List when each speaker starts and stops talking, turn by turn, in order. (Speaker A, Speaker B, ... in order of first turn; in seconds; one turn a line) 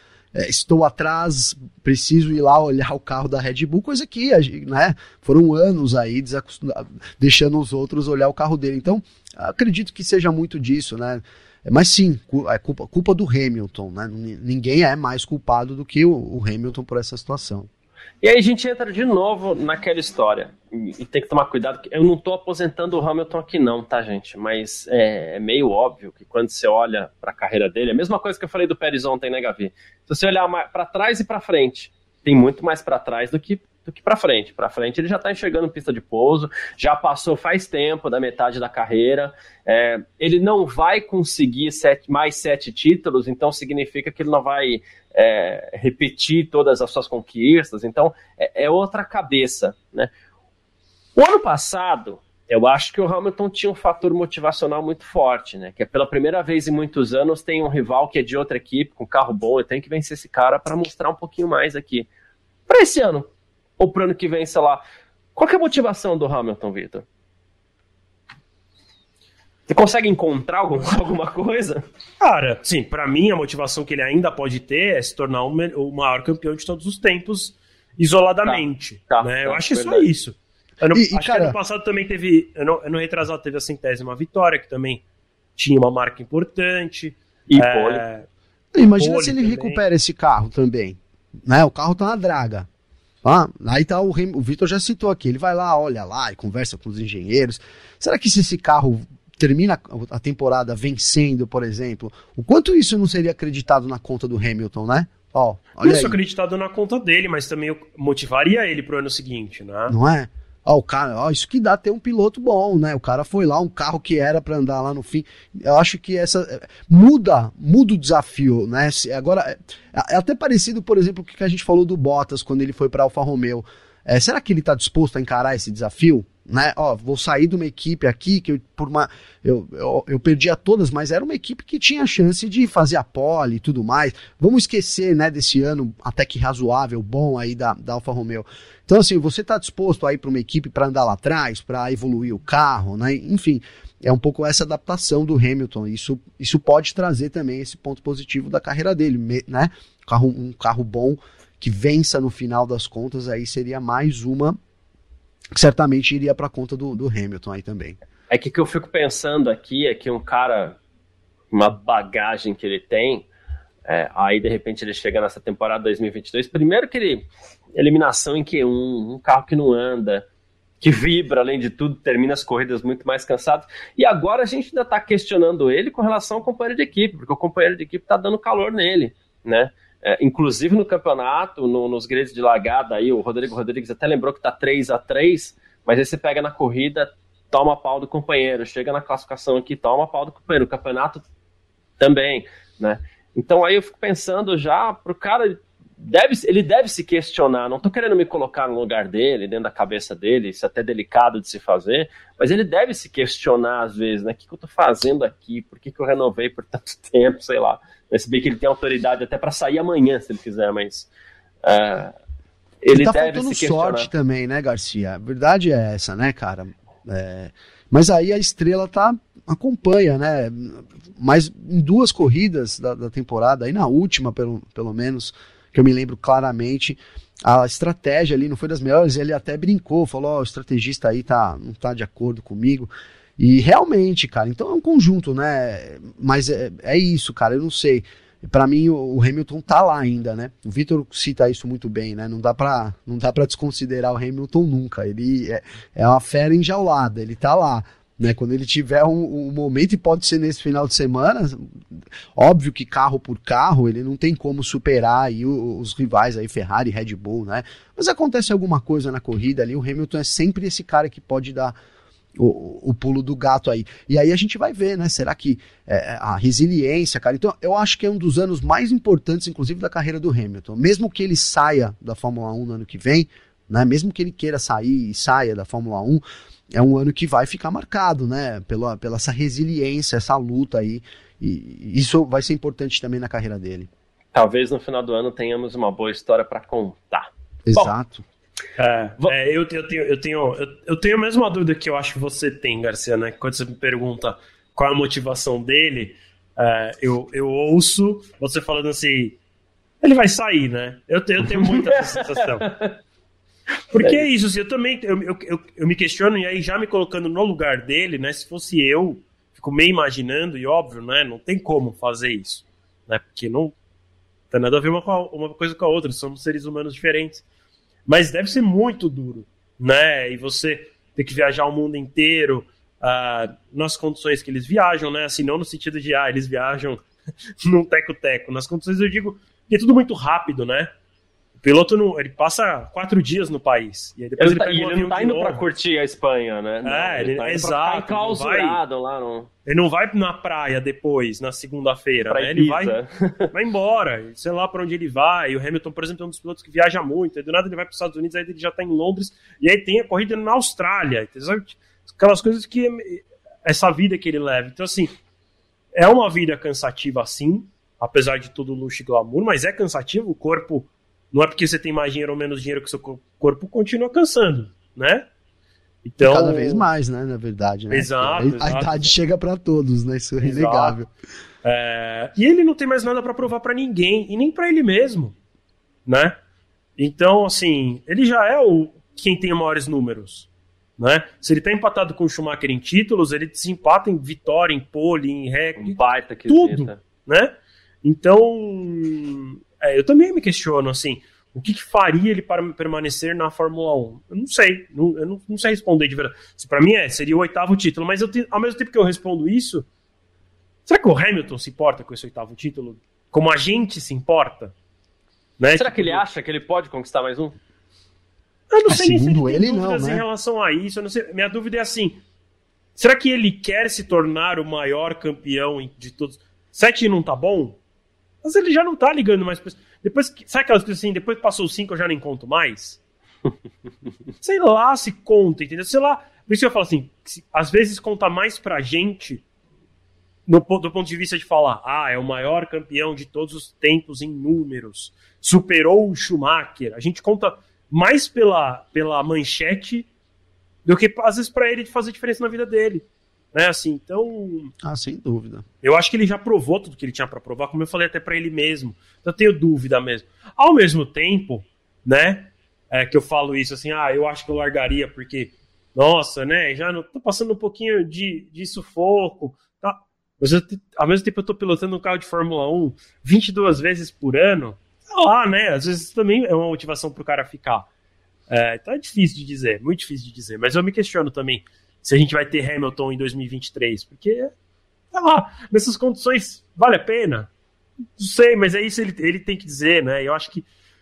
Speaker A: 0.3-17.7
Speaker B: 18.2-50.1
Speaker B: 51.2-62.1
Speaker B: 62.7-64.8
Speaker B: 65.4-67.0
Speaker B: 69.7-71.8
Speaker C: 72.2-85.0
Speaker B: 78.5-80.1
Speaker A: 80.9-81.6
Speaker C: 85.6-88.3
Speaker B: 87.5-88.0
Speaker A: 88.7-92.7
Speaker C: 89.0-89.8
Speaker A: 93.2-106.2
Speaker C: 105.8-110.0
Speaker A: 109.9-154.6
Speaker A: 155.5-158.0
Speaker B: 158.3-160.8
Speaker B: 161.5-163.3
Speaker B: 163.9-170.2
Speaker B: 170.8-191.2
Speaker B: 192.0-211.1
Speaker B: 211.6-212.1
Speaker B: 212.8-214.1
Speaker A: 212.9-251.8
Speaker A: 252.4-261.8
Speaker A: 262.4-283.9
Speaker B: 284.3-287.9
Speaker A: 287.7-288.2
Speaker C: 288.8-299.4
Speaker C: 300.0-302.7
Speaker B: 301.5-303.0
Speaker C: 303.9-313.8
Speaker C: 314.5-317.4
Speaker C: 318.1-327.1
Speaker C: 327.6-330.9
Speaker C: 331.6-335.6
Speaker B: 334.4-339.5
Speaker C: 336.8-338.8
Speaker C: 339.7-343.0
Speaker B: 342.3-343.5
Speaker C: 343.5-355.1
Speaker C: 355.9-365.3
Speaker C: 366.0-366.9
Speaker A: 366.2-371.1
Speaker C: 367.9-369.1
Speaker C: 370.4-371.0
Speaker C: 371.6-375.4
Speaker C: 376.1-376.4
Speaker C: 377.0-399.9
Speaker B: 385.8-387.0
Speaker C: 400.9-404.7
Speaker C: 405.6-406.2
Speaker B: 405.8-407.6
Speaker C: 408.7-412.2
Speaker A: 408.9-410.2
Speaker C: 413.0-417.8
Speaker C: 418.4-423.0
Speaker C: 424.4-429.4
Speaker C: 430.5-440.1
Speaker C: 440.9-444.7
Speaker A: 444.8-445.6
Speaker C: 445.8-467.9
Speaker C: 468.5-474.5
Speaker C: 475.1-477.5
Speaker C: 478.2-480.7